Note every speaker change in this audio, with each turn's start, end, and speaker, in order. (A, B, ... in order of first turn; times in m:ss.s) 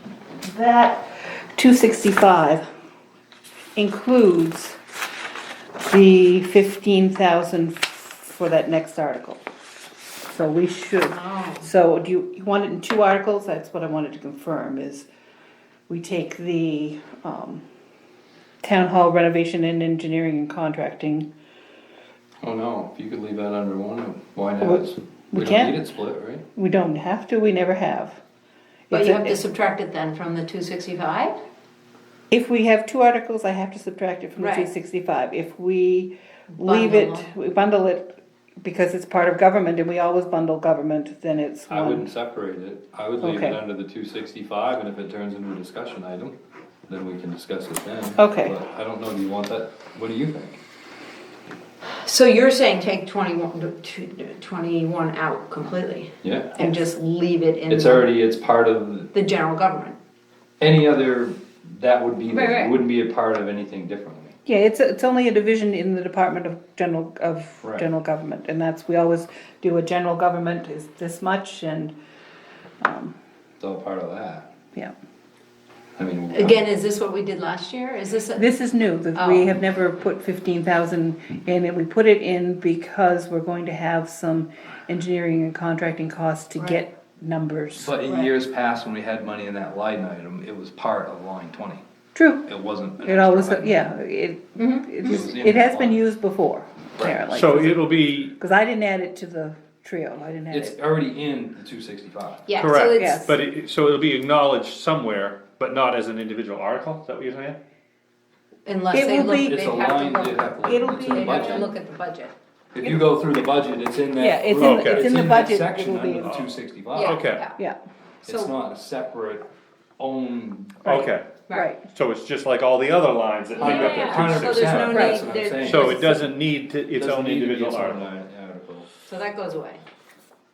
0:00.4-0:02.6 A
0:03.8-0:04.8 A
0:05.8-0:09.4 A
0:10.2-0:15.1 A
0:11.1-0:11.7 B
0:15.9-0:17.6 A
0:18.6-0:21.3 A
0:22.4-0:26.4 C
0:24.6-0:25.8 A
0:26.5-0:28.2 A
0:28.9-0:29.4 A
0:28.9-0:31.4 B
0:32.3-0:42.1 A
0:34.4-0:34.7 B
0:36.6-0:37.3 B
0:41.7-0:46.4 C
0:43.2-0:43.6 A
0:46.9-0:50.6 C
0:48.2-0:48.6 A
0:52.0-0:58.1 B
0:56.2-0:56.6 C
0:57.7-0:59.1 C
0:59.1-1:00.0 B
1:00.6-1:04.3 C
1:02.3-1:02.8 B
1:04.4-1:11.9 A
1:12.8-1:13.1 A
1:13.6-1:14.5 C
1:16.0-1:16.6 C
1:16.3-1:18.4 B
1:18.4-1:27.9 A
1:19.1-1:19.5 B
1:27.8-1:31.8 C
1:28.0-1:28.3 B
1:32.1-1:32.4 A
1:32.5-1:33.9 C
1:33.0-1:40.8 A
1:34.6-1:35.1 B
1:35.0-1:36.0 C
1:37.2-1:38.3 D
1:40.5-1:42.5 C
1:42.5-1:43.3 B
1:42.6-1:47.6 D
1:42.9-1:43.2 A
1:48.6-1:52.3 B
1:48.9-1:49.6 A
1:49.4-1:51.7 C
1:50.6-1:51.7 A
1:52.7-1:57.2 C
1:52.8-1:53.1 A
1:54.2-1:56.4 A
1:54.5-1:55.2 D
1:56.2-1:57.4 D
1:56.9-1:57.6 B
1:58.2-1:58.5 B
1:58.2-1:59.4 C
2:00.0-2:00.8 C
2:00.8-2:01.3 D
2:00.8-2:01.9 A
2:01.9-2:04.9 D
2:03.5-2:06.1 B
2:03.6-2:06.0 C
2:04.9-2:06.3 A
2:05.5-2:08.0 D
2:06.9-2:08.9 C
2:09.1-2:09.8 B